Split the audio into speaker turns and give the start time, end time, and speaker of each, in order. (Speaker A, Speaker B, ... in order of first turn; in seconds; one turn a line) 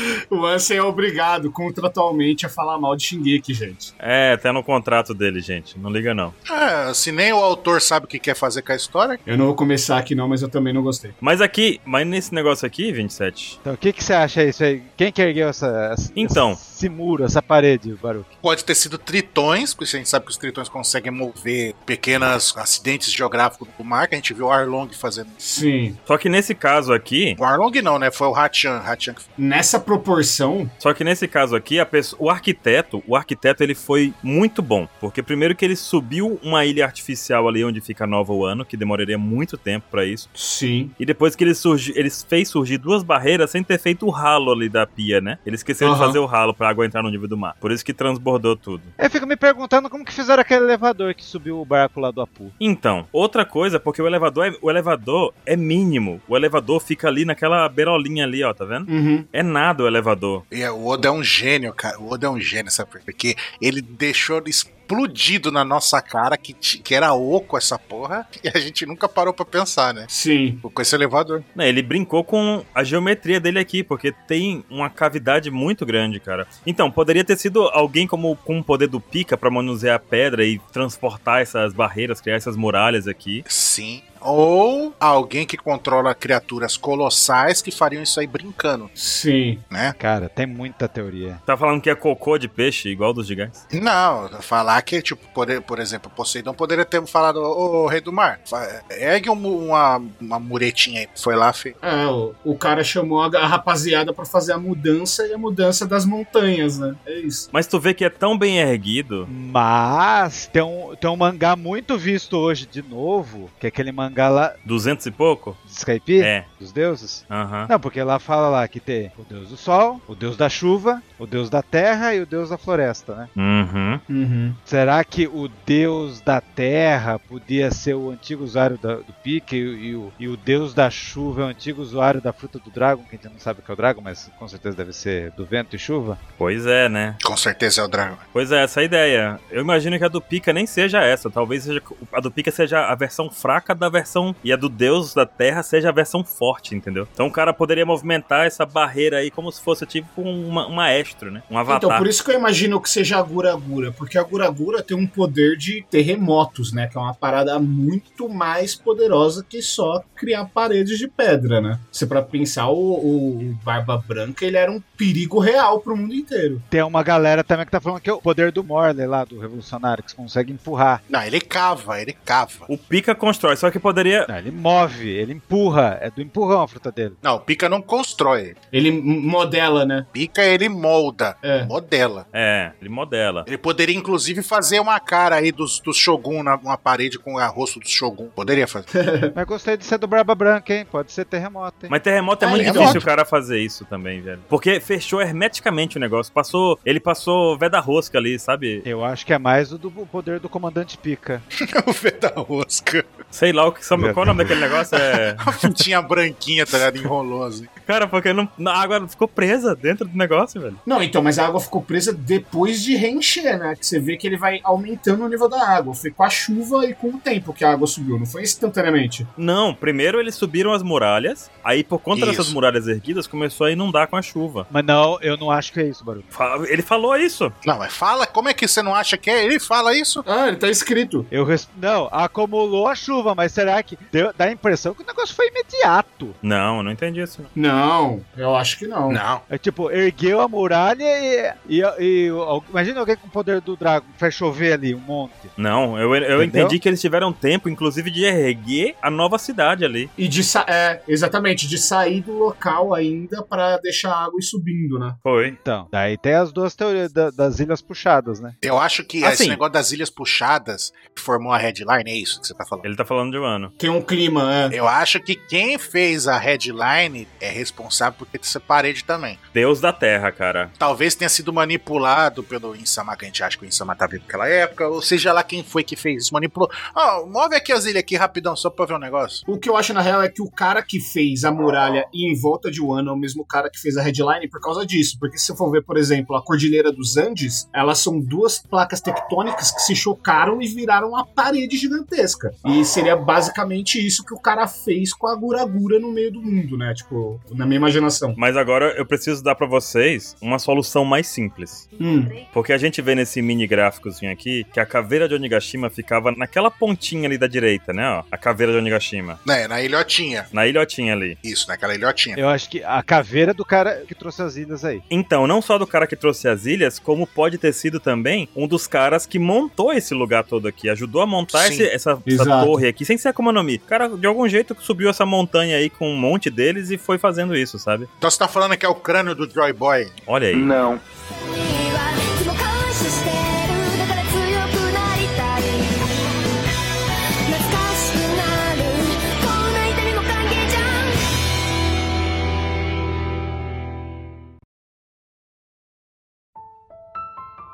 Speaker A: 0.3-3.9
Speaker B: 4.0-6.3
Speaker C: 6.4-9.2
Speaker A: 9.2-11.1
Speaker B: 11.2-13.6
Speaker D: 13.6-18.3
Speaker B: 16.1-16.6
Speaker C: 18.4-25.4
Speaker A: 25.4-26.0
Speaker B: 26.1-27.4
Speaker C: 27.4-29.2
Speaker A: 29.4-30.7
Speaker B: 30.8-40.3
Speaker A: 40.3-40.9
Speaker B: 41.0-48.9
Speaker A: 45.8-46.2
Speaker D: 49.0-52.5
Speaker B: 52.6-60.4
Speaker A: 58.9-59.3
Speaker C: 60.5-70.1
Speaker A: 70.1-70.6
Speaker C: 70.6-71.4
Speaker B: 71.5-83.4
Speaker C: 83.5-88.9
Speaker A: 89.0-89.6
Speaker C: 89.7-90.0
Speaker D: 90.0-91.4
Speaker B: 91.5-93.6
Speaker C: 93.7-101.7
Speaker A: 101.8-107.5
Speaker B: 107.5-109.3
Speaker D: 109.3-114.5
Speaker B: 114.6-115.6
Speaker D: 115.7-123.3
Speaker B: 116.2-116.5
Speaker B: 117.3-117.7
Speaker B: 123.3-124.0
Speaker A: 124.1-124.6
Speaker D: 124.7-136.2
Speaker B: 136.4-137.2
Speaker C: 137.2-138.2
Speaker B: 138.3-152.1
Speaker A: 151.7-166.6
Speaker D: 166.7-171.0
Speaker C: 171.1-172.7
Speaker B: 172.7-174.3
Speaker D: 174.3-177.2
Speaker C: 177.2-178.6
Speaker A: 178.7-180.1
Speaker C: 180.1-182.2
Speaker A: 181.4-181.7
Speaker B: 182.3-183.5
Speaker C: 183.4-188.9
Speaker A: 188.9-189.3
Speaker D: 189.3-191.9
Speaker B: 191.9-198.8
Speaker A: 192.4-193.0
Speaker C: 192.5-193.1
Speaker D: 198.8-201.4
Speaker C: 201.6-203.2
Speaker B: 203.3-205.8
Speaker D: 203.9-204.5
Speaker C: 205.4-207.7
Speaker B: 207.8-210.8
Speaker A: 210.8-219.3
Speaker B: 219.4-224.7
Speaker C: 222.1-222.6
Speaker D: 224.7-226.3
Speaker B: 226.3-227.5
Speaker C: 227.6-230.2
Speaker A: 230.2-231.3
Speaker D: 231.3-236.4
Speaker B: 236.4-237.5
Speaker A: 237.5-239.2
Speaker C: 239.1-239.4
Speaker D: 239.5-245.5
Speaker B: 245.6-250.1
Speaker D: 246.3-246.8
Speaker A: 250.2-255.2
Speaker B: 255.2-255.6
Speaker D: 255.4-258.6
Speaker C: 258.6-262.9
Speaker B: 259.2-259.6
Speaker B: 262.8-263.7
Speaker A: 263.8-264.7
Speaker C: 264.7-269.4
Speaker B: 269.5-270.7
Speaker C: 270.8-279.4
Speaker A: 279.5-298.4
Speaker B: 298.4-301.9
Speaker E: 302.0-302.4
Speaker A: 302.0-302.3
Speaker B: 302.5-309.4
Speaker C: 309.4-310.5
Speaker B: 310.5-311.4
Speaker C: 311.4-312.4
Speaker D: 312.4-315.0
Speaker B: 315.1-328.1
Speaker C: 321.5-321.9
Speaker A: 322.3-322.8
Speaker C: 328.2-331.0
Speaker B: 330.3-330.7
Speaker E: 331.4-336.0
Speaker E: 337.4-341.2